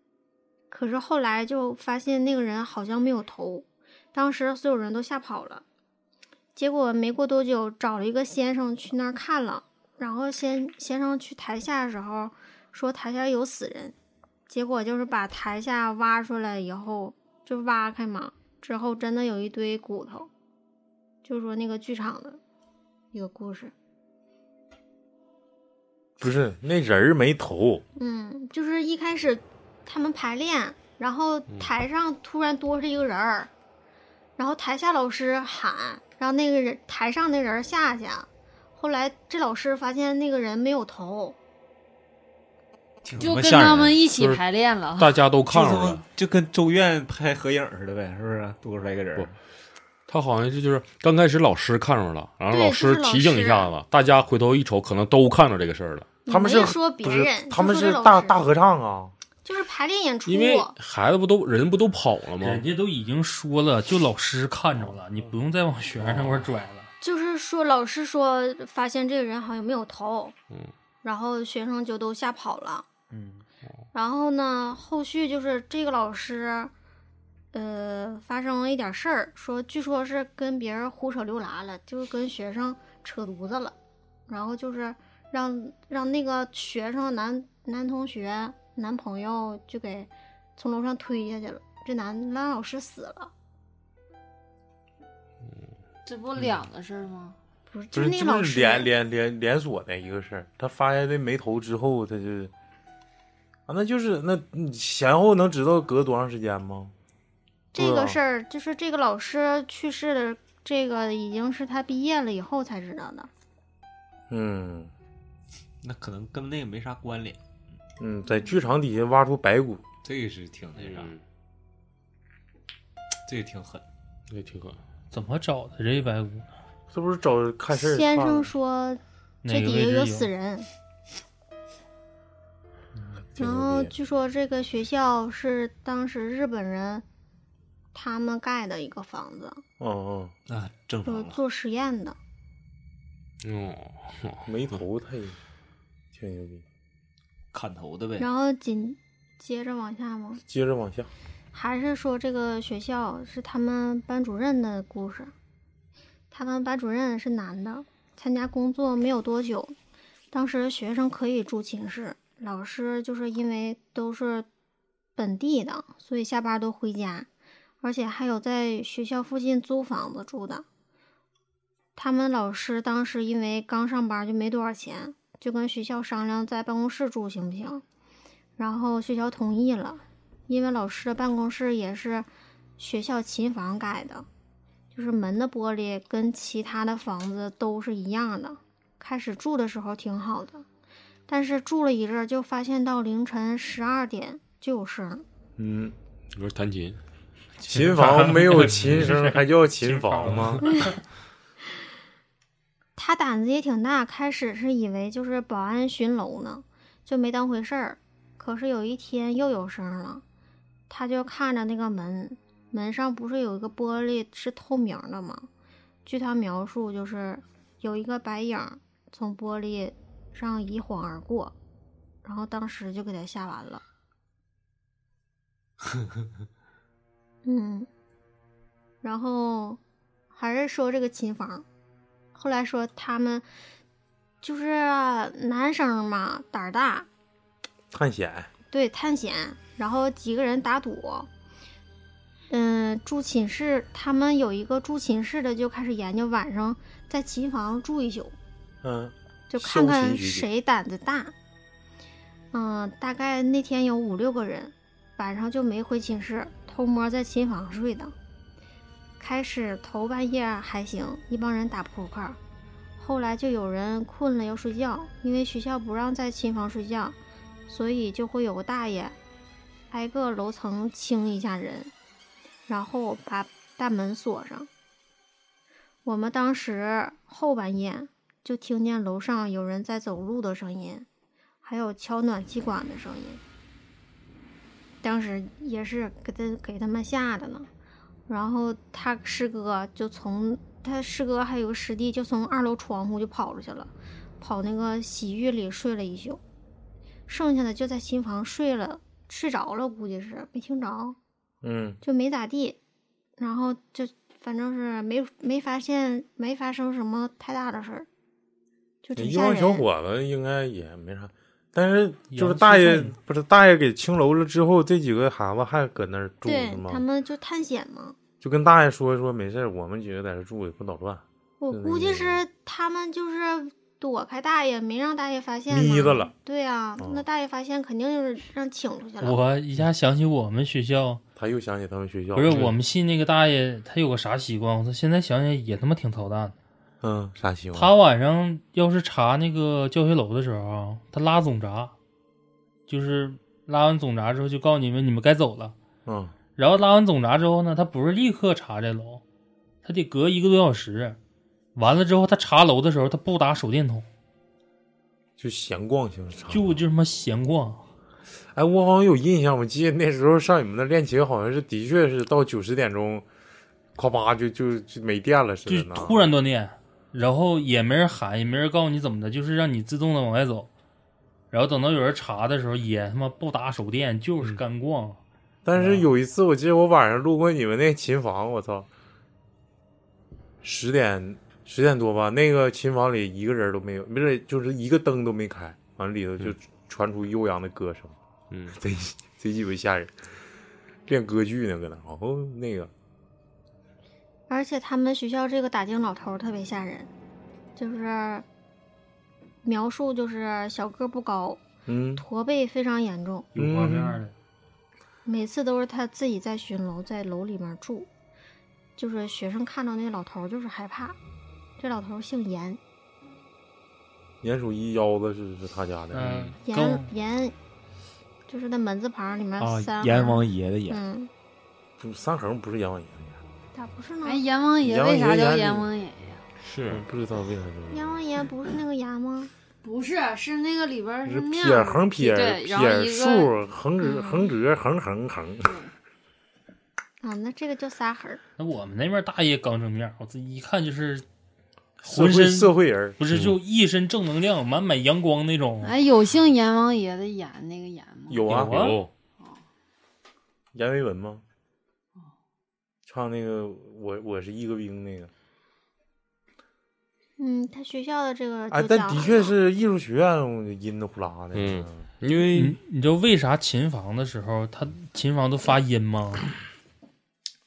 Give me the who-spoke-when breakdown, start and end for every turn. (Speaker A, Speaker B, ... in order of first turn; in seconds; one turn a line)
Speaker A: 0.7-5.6
Speaker A: 6.5-13.9
Speaker A: 14.5-20.3
Speaker A: 21.2-22.4
Speaker A: 23.1-23.7
Speaker B: 26.2-27.8
Speaker A: 28.0-33.5
Speaker A: 34.4-41.4
Speaker C: 43.0-44.0
Speaker D: 43.2-45.2
Speaker E: 44.2-44.4
Speaker E: 45.0-46.0
Speaker C: 45.5-49.3
Speaker E: 50.1-56.1
Speaker A: 52.5-53.7
Speaker A: 56.3-58.4
Speaker B: 56.3-59.1
Speaker A: 59.5-60.7
Speaker E: 60.3-62.7
Speaker F: 62.4-66.9
Speaker E: 66.0-66.4
Speaker A: 67.0-70.3
Speaker A: 71.0-72.9
Speaker F: 73.1-73.4
Speaker A: 73.9-76.7
Speaker A: 77.5-83.8
Speaker A: 84.3-93.3
Speaker D: 96.1-97.4
Speaker A: 97.7-98.9
Speaker B: 97.9-102.5
Speaker B: 103.7-106.9
Speaker A: 107.7-113.3
Speaker B: 107.8-108.2
Speaker B: 114.3-114.9
Speaker C: 115.8-117.4
Speaker B: 118.0-119.8
Speaker C: 120.0-121.1
Speaker E: 120.8-121.2
Speaker C: 123.3-123.8
Speaker E: 124.3-124.8
Speaker F: 125.1-126.5
Speaker B: 126.9-128.5
Speaker A: 127.7-130.7
Speaker F: 129.4-130.3
Speaker B: 133.3-133.9
Speaker A: 133.4-137.1
Speaker A: 137.9-139.6
Speaker B: 139.8-140.3
Speaker C: 140.5-141.4
Speaker A: 141.1-142.2
Speaker E: 143.4-144.5
Speaker B: 144.5-145.4
Speaker B: 146.1-146.6
Speaker C: 147.5-148.3
Speaker A: 148.2-150.4
Speaker B: 150.5-151.1
Speaker A: 151.5-155.3
Speaker A: 156.3-159.8
Speaker A: 160.3-164.5
Speaker A: 165.2-167.3
Speaker A: 167.8-170.7
Speaker A: 172.0-177.8
Speaker A: 178.6-182.3
Speaker A: 182.8-184.3
Speaker A: 184.9-190.7
Speaker A: 191.3-195.2
Speaker B: 195.6-195.9
Speaker E: 196.3-197.0
Speaker B: 197.6-200.7
Speaker F: 197.8-200.9
Speaker A: 203.0-210.2
Speaker A: 210.9-215.5
Speaker A: 216.1-221.5
Speaker A: 222.2-223.8
Speaker A: 227.4-227.9
Speaker A: 229.0-229.8
Speaker A: 230.3-231.7
Speaker A: 232.3-233.4
Speaker A: 234.4-237.1
Speaker B: 237.9-238.5
Speaker A: 238.7-241.3
Speaker A: 242.5-248.4
Speaker B: 248.8-250.5
Speaker A: 249.5-251.3
Speaker A: 252.5-258.1
Speaker A: 259.2-262.4
Speaker A: 263.0-267.2
Speaker A: 267.7-269.2
Speaker A: 269.9-271.9
Speaker A: 272.7-274.7
Speaker A: 276.1-281.1
Speaker A: 281.6-283.4
Speaker A: 285.0-287.7
Speaker A: 288.3-296.4
Speaker A: 297.3-301.2
Speaker B: 301.6-302.0
Speaker A: 302.0-302.8
Speaker A: 303.4-308.1
Speaker A: 309.0-309.9
Speaker B: 309.2-317.0
Speaker F: 312.3-313.1
Speaker A: 316.4-318.2
Speaker B: 318.4-322.4
Speaker A: 321.6-329.4
Speaker B: 325.7-326.3
Speaker B: 327.0-327.2
Speaker F: 329.2-331.2
Speaker B: 331.4-332.7
Speaker F: 332.3-336.6
Speaker E: 332.5-332.7
Speaker B: 337.0-337.9
Speaker F: 337.8-341.9
Speaker F: 342.9-345.8
Speaker B: 346.1-346.3
Speaker F: 346.6-349.2
Speaker F: 349.8-351.2
Speaker F: 351.8-354.1
Speaker B: 355.4-356.7
Speaker F: 356.5-357.8
Speaker B: 358.5-363.3
Speaker B: 364.0-366.2
Speaker F: 365.7-370.7
Speaker F: 371.5-375.2
Speaker B: 375.6-378.9
Speaker F: 375.8-376.1
Speaker B: 380.6-388.2
Speaker E: 388.5-388.8
Speaker B: 388.7-390.1
Speaker B: 391.1-392.9
Speaker A: 394.5-397.1
Speaker A: 397.8-398.5
Speaker A: 399.6-401.6
Speaker B: 401.9-402.2
Speaker A: 402.2-403.5
Speaker F: 403.5-404.3
Speaker B: 403.6-404.2
Speaker A: 405.3-408.1
Speaker A: 409.0-411.2
Speaker A: 411.8-412.8
Speaker B: 414.4-416.5
Speaker F: 416.1-417.1
Speaker A: 416.6-417.6
Speaker A: 418.5-421.3
Speaker C: 419.6-421.0
Speaker B: 422.0-423.4
Speaker A: 423.7-424.4
Speaker D: 424.2-426.4
Speaker B: 424.8-425.9
Speaker E: 426.6-427.0
Speaker B: 426.9-428.1
Speaker A: 427.9-429.5
Speaker D: 429.8-433.5
Speaker B: 431.4-435.8
Speaker A: 434.0-434.5
Speaker D: 435.6-435.9
Speaker A: 437.2-438.4
Speaker F: 438.6-441.3
Speaker B: 442.0-443.2
Speaker F: 442.0-445.9
Speaker E: 443.3-443.6
Speaker D: 445.8-448.4
Speaker B: 448.3-448.7
Speaker E: 448.5-449.1
Speaker F: 448.5-449.0
Speaker B: 450.7-451.4
Speaker B: 453.1-455.3
Speaker A: 457.4-459.5
Speaker B: 458.7-462.1
Speaker E: 461.5-462.8
Speaker F: 462.5-466.5